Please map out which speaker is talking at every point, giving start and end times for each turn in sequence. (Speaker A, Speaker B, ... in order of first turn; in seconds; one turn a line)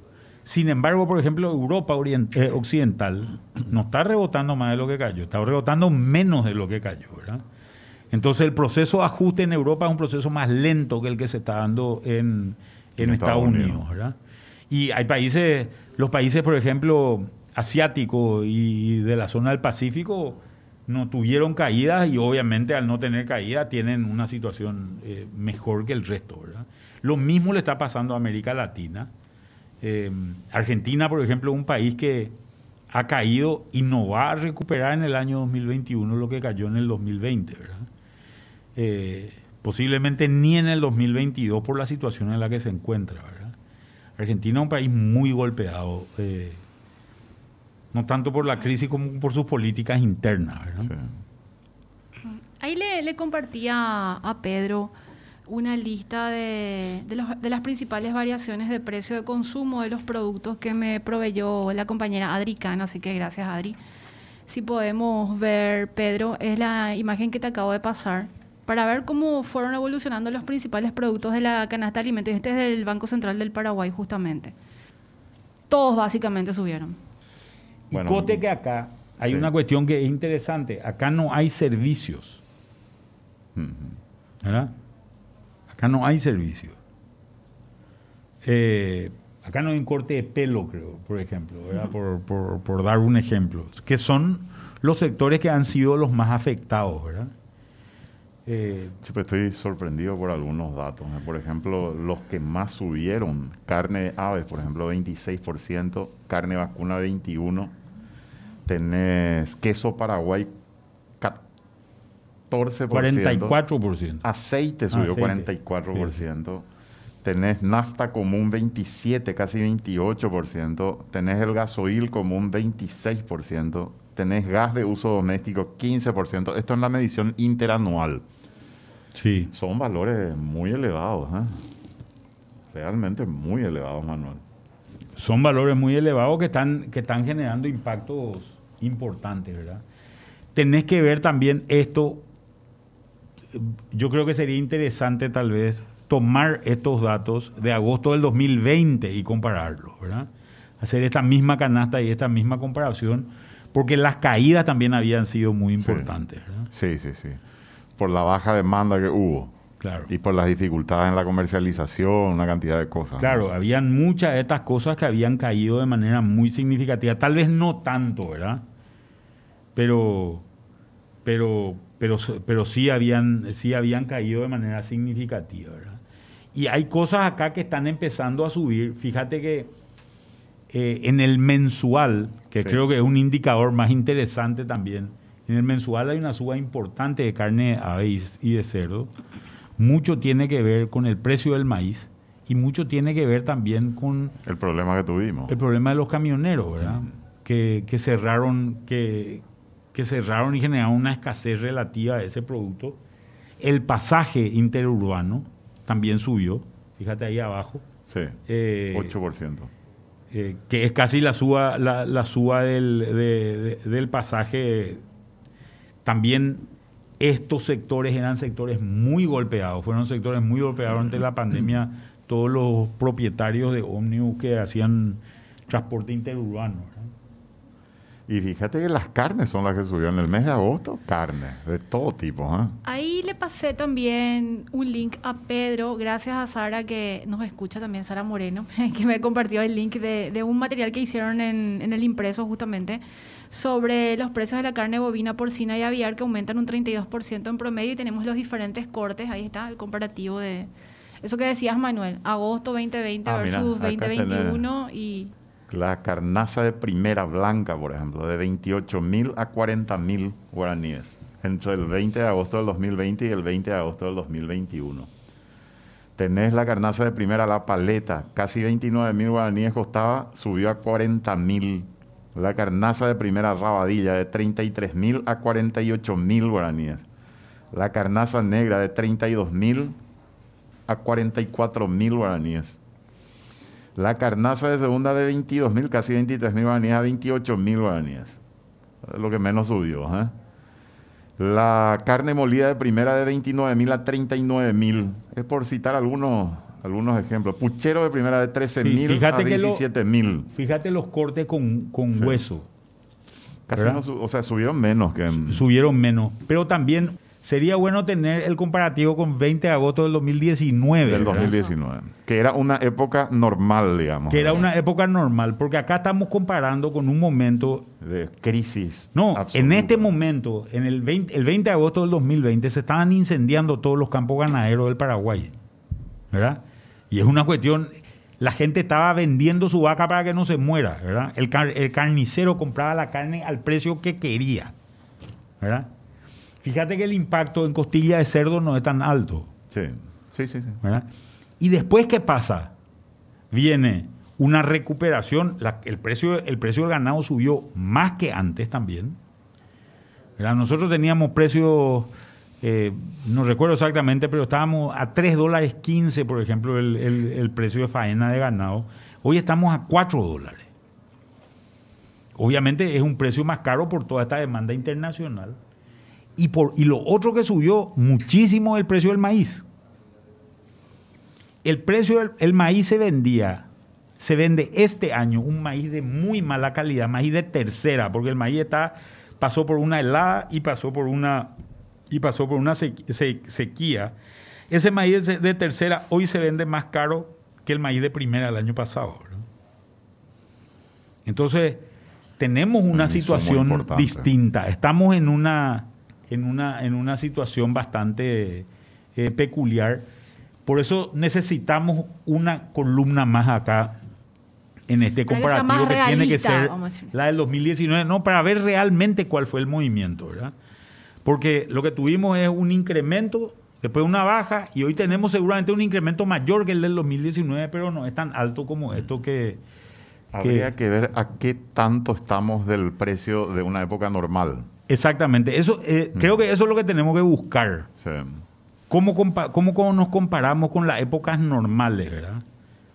Speaker A: 0.5-7.4
Speaker A: 8.1-14.2
Speaker B: 13.0-13.8
Speaker A: 14.7-29.1
Speaker A: 29.8-32.4
Speaker A: 32.9-37.9
Speaker A: 38.8-43.5
Speaker A: 44.2-46.6
Speaker A: 47.9-50.9
Speaker C: 52.2-54.9
Speaker C: 55.5-63.8
Speaker C: 64.5-74.5
Speaker C: 75.7-77.0
Speaker A: 77.9-82.4
Speaker B: 77.9-78.4
Speaker B: 79.2-79.5
Speaker B: 83.5-84.0
Speaker A: 84.4-84.7
Speaker A: 85.7-86.8
Speaker A: 88.4-97.3
Speaker A: 98.5-99.0
Speaker B: 99.0-107.7
Speaker B: 108.7-110.5
Speaker B: 112.5-113.6
Speaker A: 112.9-114.2
Speaker B: 114.2-116.7
Speaker A: 114.9-116.2
Speaker B: 117.2-128.2
Speaker A: 129.2-129.5
Speaker B: 129.5-131.6
Speaker B: 132.7-134.4
Speaker A: 135.2-139.8
Speaker A: 140.6-142.2
Speaker A: 143.5-150.3
Speaker A: 150.8-156.7
Speaker B: 155.8-156.1
Speaker B: 156.7-157.4
Speaker B: 158.0-159.5
Speaker A: 159.8-160.1
Speaker B: 160.1-163.4
Speaker A: 163.2-168.6
Speaker A: 169.8-170.4
Speaker A: 171.2-176.0
Speaker A: 176.5-179.7
Speaker A: 180.7-189.1
Speaker A: 189.8-194.3
Speaker B: 194.4-195.5
Speaker A: 195.5-203.0
Speaker B: 196.8-197.1
Speaker A: 203.6-207.9
Speaker B: 208.1-208.4
Speaker A: 208.5-209.2
Speaker B: 208.9-209.7
Speaker A: 210.3-215.0
Speaker A: 216.1-216.7
Speaker A: 217.2-227.1
Speaker B: 228.3-232.8
Speaker C: 232.8-250.7
Speaker C: 251.2-255.3
Speaker B: 253.3-254.7
Speaker B: 255.7-265.1
Speaker B: 266.2-277.1
Speaker B: 277.7-280.0
Speaker B: 280.9-282.8
Speaker B: 284.0-288.4
Speaker B: 289.0-290.3
Speaker B: 291.4-300.5
Speaker A: 298.8-299.8
Speaker A: 300.5-302.7
Speaker B: 302.1-302.4
Speaker B: 303.7-305.6
Speaker A: 303.8-304.0
Speaker A: 305.5-311.6
Speaker B: 311.0-314.6
Speaker A: 314.3-317.9
Speaker B: 318.0-320.1
Speaker A: 319.1-325.5
Speaker A: 326.3-334.8
Speaker A: 335.6-335.9
Speaker A: 336.6-339.5
Speaker B: 339.7-340.8
Speaker A: 340.8-341.1
Speaker A: 341.6-342.8
Speaker A: 343.5-349.2
Speaker A: 350.4-360.7
Speaker A: 362.4-365.6
Speaker A: 366.4-369.6
Speaker A: 371.6-373.7
Speaker A: 374.2-381.6
Speaker A: 382.1-384.1
Speaker A: 384.7-389.4
Speaker A: 391.3-391.9
Speaker A: 392.4-400.1
Speaker B: 392.9-394.3
Speaker A: 400.7-404.0
Speaker A: 404.9-410.5
Speaker C: 405.3-407.1
Speaker A: 411.2-419.6
Speaker B: 420.3-424.7
Speaker A: 420.4-420.7
Speaker A: 424.9-427.9
Speaker B: 428.0-428.4
Speaker A: 428.9-432.4